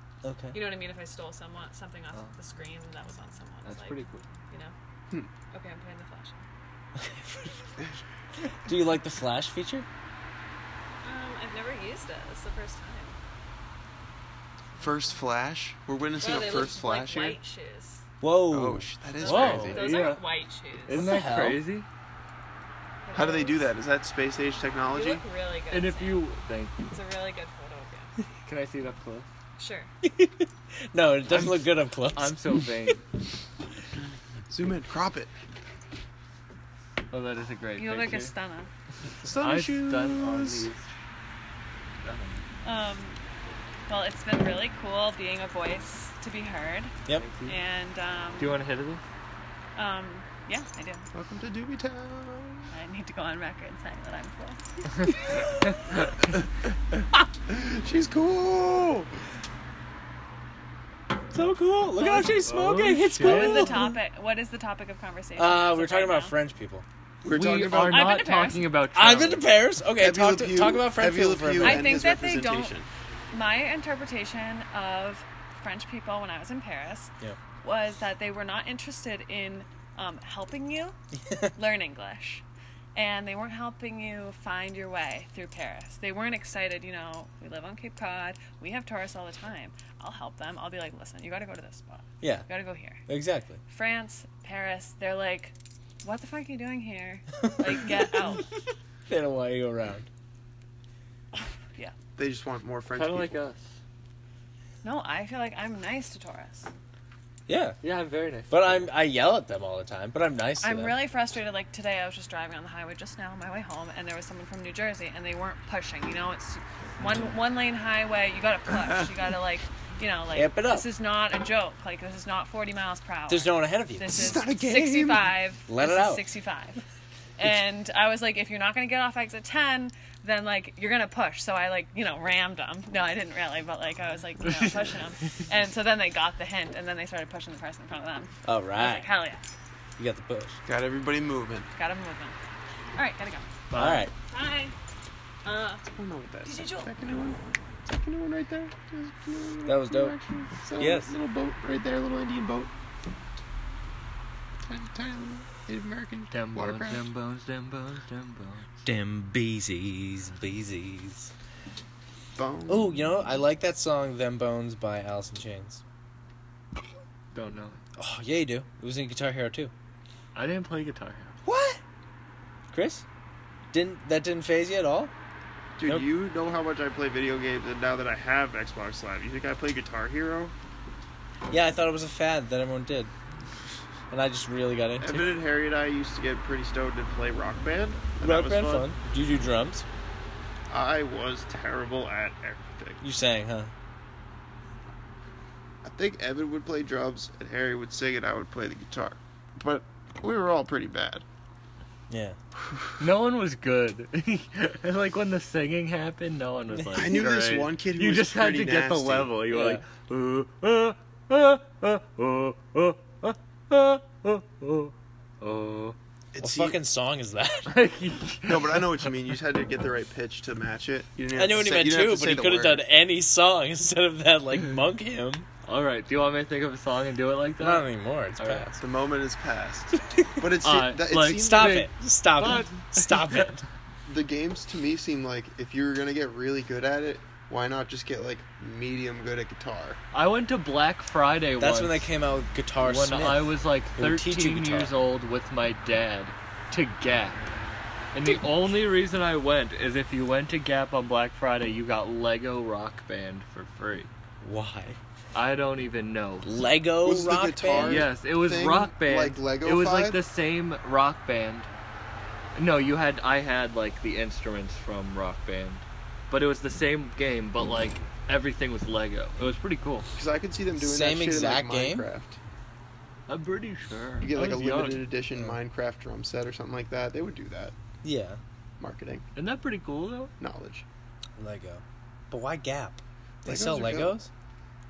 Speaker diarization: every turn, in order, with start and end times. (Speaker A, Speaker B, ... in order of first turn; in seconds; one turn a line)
Speaker A: 0.2-0.6
Speaker B: 0.5-4.7
Speaker C: 3.6-4.3
Speaker B: 5.5-6.5
Speaker A: 7.0-7.8
Speaker A: 8.7-9.9
Speaker B: 11.0-13.2
Speaker D: 14.8-17.4
Speaker B: 16.2-18.1
Speaker A: 18.2-19.8
Speaker D: 18.5-20.0
Speaker B: 19.2-21.2
Speaker C: 19.8-20.2
Speaker C: 20.9-21.9
Speaker A: 20.9-21.6
Speaker B: 23.1-23.7
Speaker D: 23.1-25.2
Speaker B: 24.9-26.3
Speaker C: 25.7-26.9
Speaker B: 26.9-28.1
Speaker C: 28.4-29.3
Speaker B: 29.6-29.9
Speaker A: 30.0-32.7
Speaker C: 31.3-33.0
Speaker D: 34.5-35.3
Speaker C: 37.1-38.3
Speaker B: 37.8-38.7
Speaker C: 39.2-40.9
Speaker D: 39.2-40.7
Speaker C: 42.0-42.5
Speaker B: 42.6-43.2
Speaker B: 43.9-48.6
Speaker C: 47.1-47.6
Speaker C: 48.4-49.0
Speaker B: 49.8-51.1
Speaker D: 51.1-52.7
Speaker B: 52.7-55.5
Speaker C: 54.9-56.3
Speaker D: 57.5-59.1
Speaker A: 61.3-63.9
Speaker B: 62.0-62.5
Speaker C: 62.4-63.8
Speaker B: 63.2-66.4
Speaker A: 65.4-66.9
Speaker D: 67.2-68.3
Speaker C: 67.3-69.5
Speaker B: 67.8-68.7
Speaker A: 69.0-72.0
Speaker D: 70.0-72.9
Speaker B: 71.6-72.8
Speaker B: 73.3-81.0
Speaker A: 81.2-81.5
Speaker B: 81.5-82.4
Speaker B: 83.0-93.0
Speaker A: 92.2-92.5
Speaker A: 93.1-93.6
Speaker B: 93.7-98.5
Speaker A: 97.4-98.5
Speaker A: 99.1-100.1
Speaker D: 102.2-103.4
Speaker C: 102.9-103.8
Speaker B: 104.8-106.7
Speaker A: 107.5-107.8
Speaker C: 107.8-108.7
Speaker A: 108.5-111.0
Speaker B: 110.6-126.8
Speaker D: 118.7-119.3
Speaker A: 120.3-120.9
Speaker A: 123.3-124.4
Speaker D: 124.1-125.4
Speaker A: 125.7-126.3
Speaker B: 127.4-139.4
Speaker C: 134.4-135.3
Speaker A: 138.4-139.1
Speaker A: 140.0-140.6
Speaker D: 140.7-141.7
Speaker B: 141.7-142.4
Speaker B: 143.0-143.5
Speaker C: 143.7-144.1
Speaker A: 143.8-144.1
Speaker B: 144.2-144.8
Speaker B: 145.4-145.8
Speaker D: 145.9-152.7
Speaker B: 146.4-146.9
Speaker A: 149.7-150.2
Speaker A: 150.8-151.1
Speaker D: 154.7-157.1
Speaker C: 156.3-158.9
Speaker A: 158.8-161.3
Speaker D: 162.4-163.3
Speaker A: 162.7-165.8
Speaker C: 167.3-167.8
Speaker A: 168.0-169.7
Speaker C: 170.3-171.4
Speaker D: 171.5-171.8
Speaker A: 172.7-173.1
Speaker A: 173.7-175.1
Speaker D: 175.8-180.5
Speaker A: 181.5-183.1
Speaker A: 184.1-185.4
Speaker D: 185.0-188.9
Speaker A: 188.2-189.9
Speaker D: 190.7-193.0
Speaker A: 193.0-193.7
Speaker D: 195.8-201.2
Speaker A: 202.1-202.4
Speaker D: 202.6-203.0
Speaker C: 203.0-216.0
Speaker D: 206.9-209.3
Speaker A: 209.5-209.8
Speaker D: 216.3-216.8
Speaker A: 216.4-217.7
Speaker C: 217.7-219.1
Speaker D: 218.5-222.9
Speaker A: 221.3-225.5
Speaker C: 225.7-227.9
Speaker A: 227.6-228.8
Speaker C: 228.4-228.7
Speaker D: 228.8-231.9
Speaker C: 230.6-233.5
Speaker A: 231.3-233.7
Speaker D: 234.1-240.0
Speaker C: 240.1-242.1
Speaker A: 241.6-244.9
Speaker C: 242.8-247.4
Speaker C: 248.1-254.1
Speaker A: 254.4-255.0
Speaker C: 255.3-256.6
Speaker A: 256.4-258.1
Speaker D: 257.0-260.2
Speaker C: 257.8-261.7
Speaker C: 262.6-270.1
Speaker D: 270.1-272.4
Speaker A: 270.8-272.1
Speaker C: 273.3-275.1
Speaker D: 274.2-277.7
Speaker A: 275.3-275.6
Speaker A: 278.0-278.4
Speaker D: 278.8-279.2
Speaker C: 279.4-280.3
Speaker D: 280.4-280.9
Speaker A: 281.4-284.3
Speaker D: 283.4-284.2